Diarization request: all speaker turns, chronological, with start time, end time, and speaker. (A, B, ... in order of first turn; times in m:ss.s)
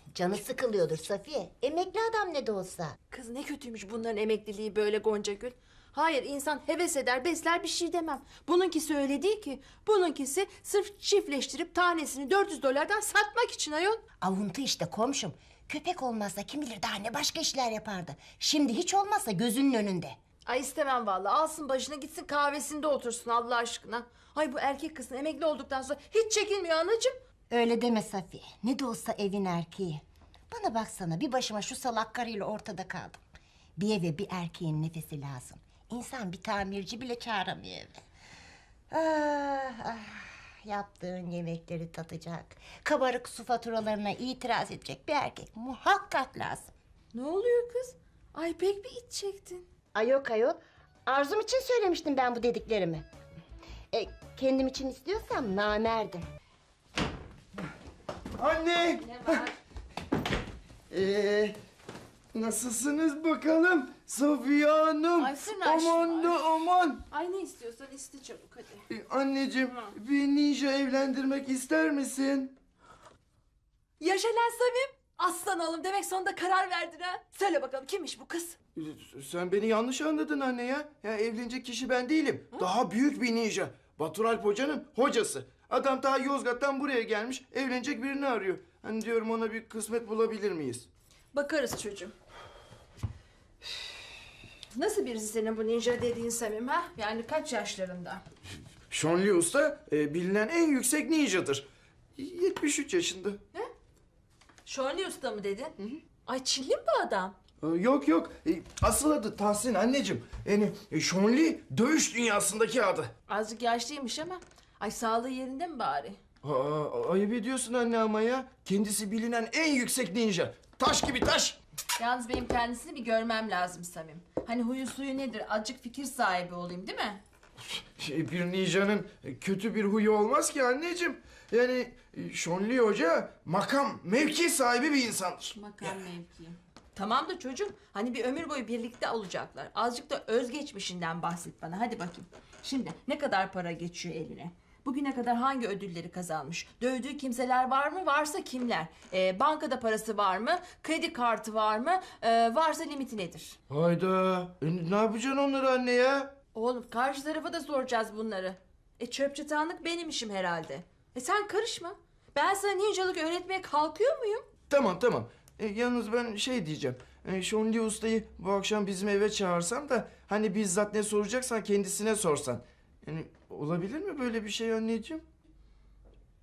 0:00.1-0:02.9 A
0:03.1-0:14.0 B
0:14.2-0:20.2 A
0:20.5-0:27.1 B
0:27.5-0:33.2 A
0:33.8-0:38.0 A
0:38.9-0:46.7 A
0:47.1-0:49.6 B
0:49.9-0:53.0 A
0:53.9-0:56.2 A
0:58.4-0:59.4 C
0:59.0-0:59.5 B
1:00.9-1:01.6 C
1:02.3-1:07.0 C
1:05.2-1:06.4 B
1:07.1-1:08.8 B
1:08.9-1:12.5 C
1:09.6-1:09.9 B
1:14.0-1:18.6 B
1:18.8-1:30.9 C
1:31.3-1:32.1 B
1:34.7-1:38.2 B
1:38.9-1:41.6 C
1:42.2-1:43.4 C
1:44.6-1:47.3 B
1:47.6-1:53.1 C
1:53.3-1:56.2 B
1:56.4-2:01.6 C
2:02.0-2:07.2 B
2:08.0-2:15.5 C
2:15.5-2:33.6 B
2:33.7-2:36.3 C
2:36.5-2:44.4 B
2:44.7-2:55.2 C